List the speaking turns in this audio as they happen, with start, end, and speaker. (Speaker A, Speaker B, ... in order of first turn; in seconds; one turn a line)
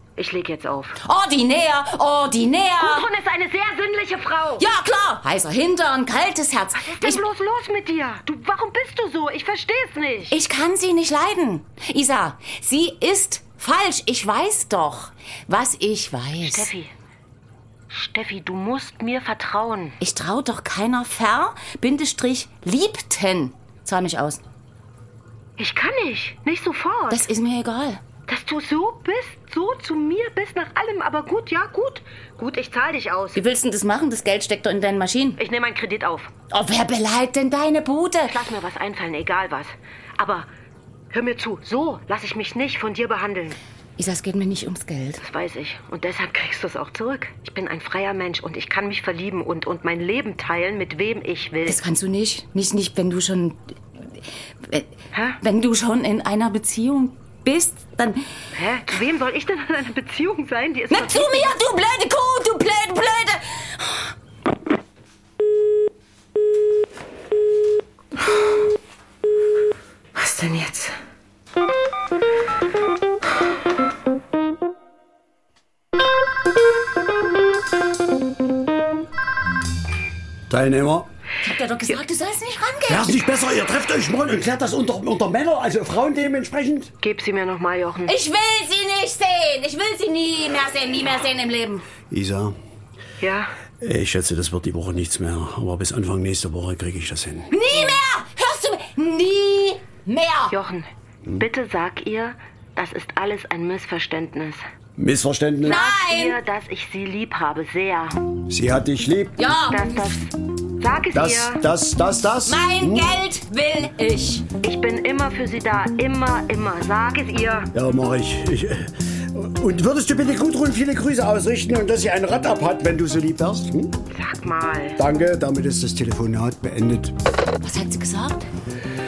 Speaker A: 0.2-1.0
Speaker B: 1.0-3.1
Speaker A: 2.8-4.7
Speaker B: 4.6-7.2
Speaker A: 6.8-10.4
Speaker B: 10.3-16.7
Speaker A: 16.4-16.9
Speaker A: 17.9-20.0
Speaker B: 20.0-24.4
Speaker A: 25.6-27.3
Speaker B: 27.1-28.0
Speaker A: 28.3-33.4
Speaker B: 33.3-35.4
Speaker A: 35.4-36.3
Speaker B: 36.5-38.4
Speaker A: 38.3-40.5
Speaker A: 41.1-43.6
Speaker B: 44.0-45.2
Speaker A: 45.2-51.8
Speaker B: 51.7-58.2
Speaker A: 55.1-55.4
Speaker A: 58.5-61.6
Speaker B: 60.9-64.1
Speaker A: 70.2-71.0
Speaker C: 80.5-81.1
Speaker B: 81.4-83.2
Speaker C: 82.9-86.9
Speaker A: 87.0-88.1
Speaker B: 88.1-91.9
Speaker C: 92.1-92.5
Speaker A: 93.2-93.5
Speaker C: 93.8-97.5
Speaker B: 97.5-100.5
Speaker A: 97.7-98.0
Speaker A: 100.5-104.6
Speaker C: 105.0-105.8
Speaker A: 105.6-108.2
Speaker B: 105.7-106.4
Speaker C: 108.5-109.4
Speaker B: 109.4-110.2
Speaker A: 109.7-111.6
Speaker C: 111.1-113.0
Speaker B: 112.4-114.5
Speaker A: 114.6-117.7
Speaker C: 117.7-124.0
Speaker A: 124.1-125.0
Speaker C: 125.0-127.1
Speaker B: 127.6-128.5